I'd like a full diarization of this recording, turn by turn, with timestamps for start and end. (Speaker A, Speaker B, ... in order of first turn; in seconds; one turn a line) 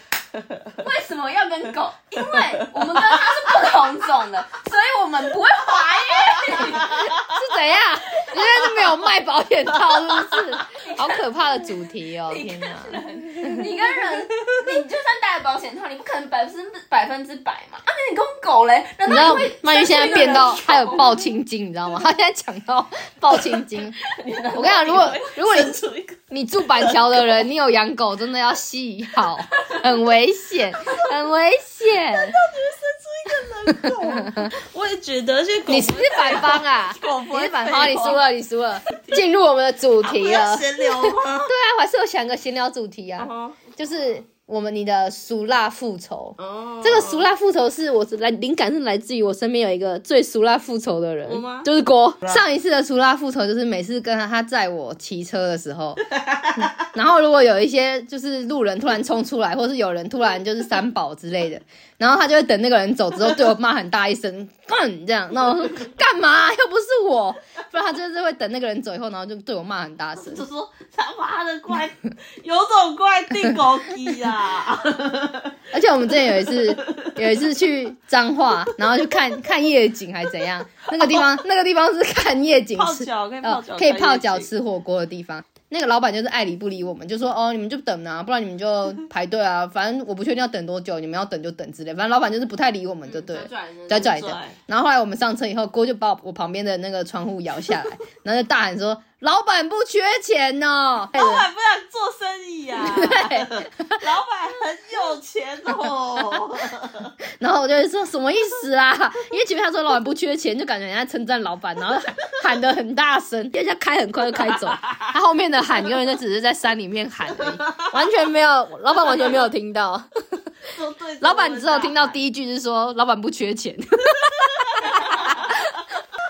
Speaker A: 0.3-0.7
Speaker B: 0.8-7.1
Speaker C: 6.9-13.6
Speaker B: 10.7-11.3
Speaker B: 12.3-21.2
Speaker C: 19.1-24.0
Speaker B: 24.1-25.3
Speaker C: 24.5-25.8
Speaker A: 24.6-26.2
Speaker C: 26.3-32.4
Speaker A: 26.7-27.3
Speaker A: 32.1-38.2
Speaker C: 33.8-34.5
Speaker C: 35.7-70.5
Speaker A: 40.0-41.5
Speaker A: 43.2-43.6
Speaker A: 46.4-47.2
Speaker A: 51.3-51.7
Speaker A: 56.3-56.7
Speaker A: 70.2-75.6
Speaker C: 75.7-101.5
Speaker A: 76.3-77.2
Speaker A: 82.8-84.5
Speaker B: 93.1-94.1
Speaker A: 93.9-94.6
Speaker A: 101.1-107.1
Speaker C: 102.8-103.9
Speaker C: 107.4-120.1
Speaker A: 120.7-122.2
Speaker C: 121.2-125.9
Speaker A: 124.8-125.5